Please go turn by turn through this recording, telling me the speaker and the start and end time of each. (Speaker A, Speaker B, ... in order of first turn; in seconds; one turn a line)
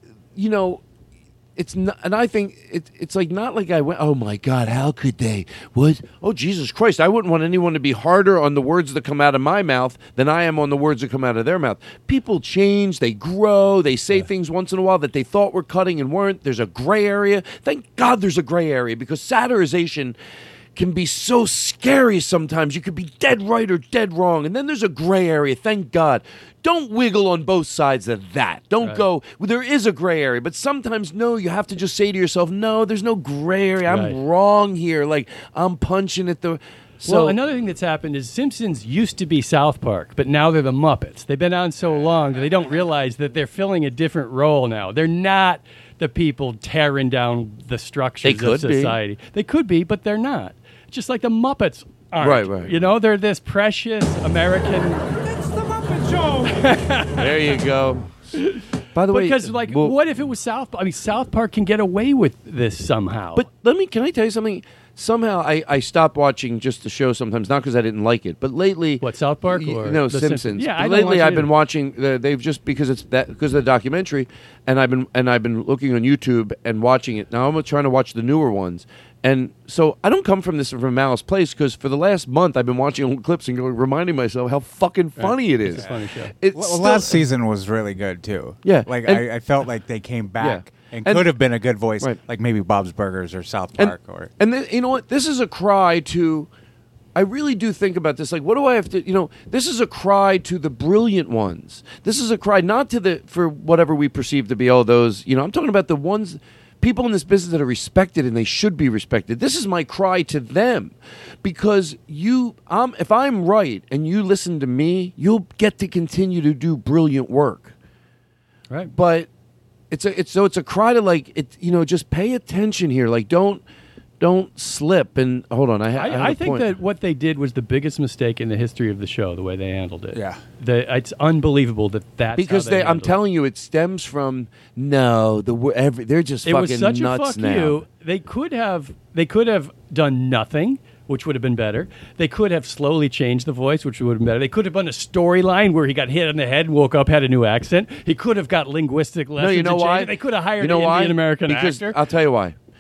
Speaker A: 0.3-0.8
Speaker A: 1.6-20.1
Speaker A: 20.8-37.4
Speaker B: 28.8-29.1
Speaker B: 33.8-34.2
Speaker B: 37.0-55.1
Speaker A: 48.2-49.0
Speaker A: 52.2-52.7
Speaker B: 56.2-57.6
Speaker A: 57.1-58.3
Speaker B: 58.4-63.5
Speaker A: 58.9-59.9
Speaker A: 63.4-87.2
Speaker B: 69.0-71.5
Speaker B: 85.2-86.3
Speaker C: 86.5-94.3
Speaker A: 88.6-89.3
Speaker A: 90.4-91.3
Speaker A: 93.8-96.5
Speaker A: 97.1-117.7
Speaker A: 118.9-119.3
Speaker A: 119.9-123.6
Speaker A: 124.2-126.7
Speaker B: 126.0-133.2
Speaker C: 130.1-130.4
Speaker A: 132.3-137.8
Speaker B: 136.4-152.0
Speaker A: 149.4-152.5